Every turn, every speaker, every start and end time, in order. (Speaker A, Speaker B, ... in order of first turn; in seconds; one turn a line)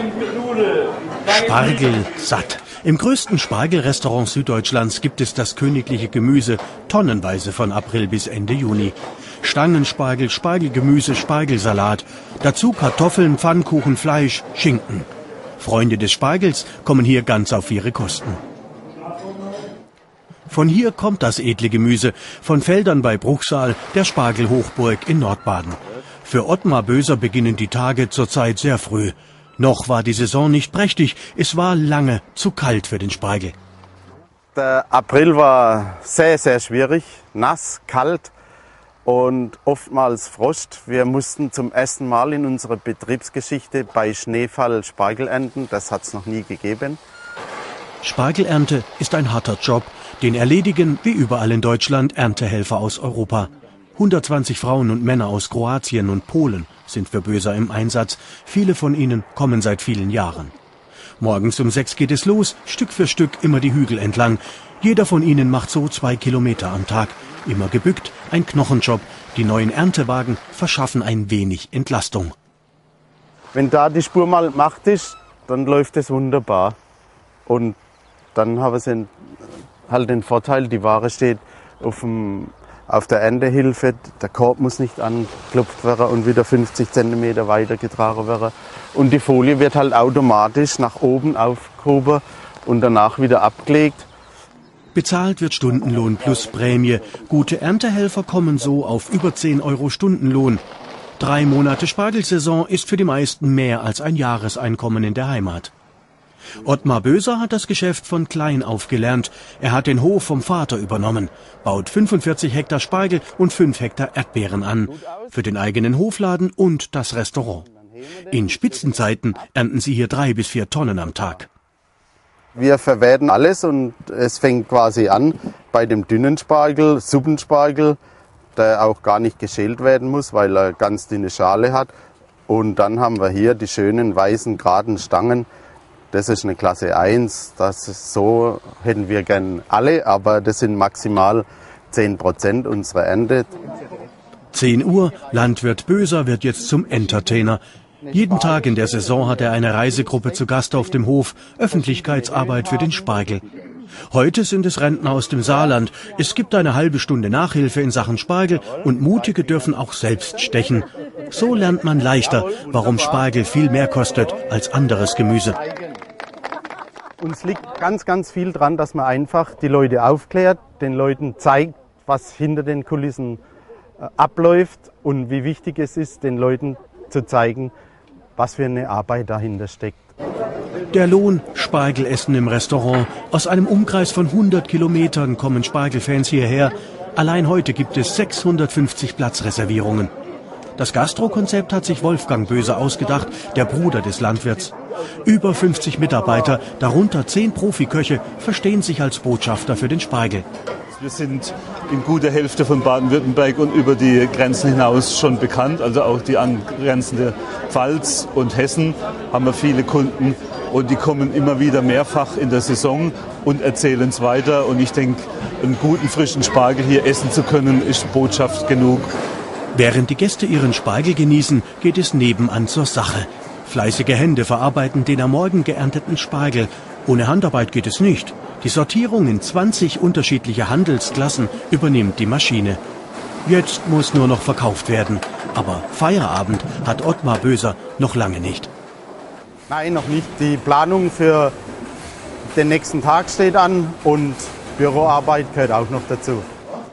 Speaker A: 1.2-15.1
Speaker A: 15.6-18.4
Speaker A: 20.5-33.5
Speaker B: 34.5-38.3
Speaker B: 39.0-47.0
Speaker A: 48.0-60.5
Speaker A: 61.2-72.3
Speaker B: 73.5-76.8
Speaker B: 77.5-77.8
Speaker B: 78.3-79.1
Speaker B: 79.9-94.1
Speaker A: 94.9-100.6
Speaker A: 101.2-105.7
Speaker A: 106.6-117.7
Speaker B: 117.7-118.4
Speaker A: 118.3-121.5
Speaker B: 122.5-128.0
Speaker B: 128.6-131.9
Speaker B: 132.5-135.5
Speaker B: 136.1-143.5
Speaker A: 144.5-153.4
Speaker A: 154.1-165.6
Speaker B: 167.2-173.4
Speaker B: 174.0-177.7
Speaker B: 178.3-180.0
Speaker A: 180.9-190.1
Speaker A: 190.8-200.4
Speaker C: 201.0-219.1
Speaker A: 219.7-232.8
Speaker A: 233.4-238.7
Speaker B: 239.7-241.5
Speaker B: 242.5-246.5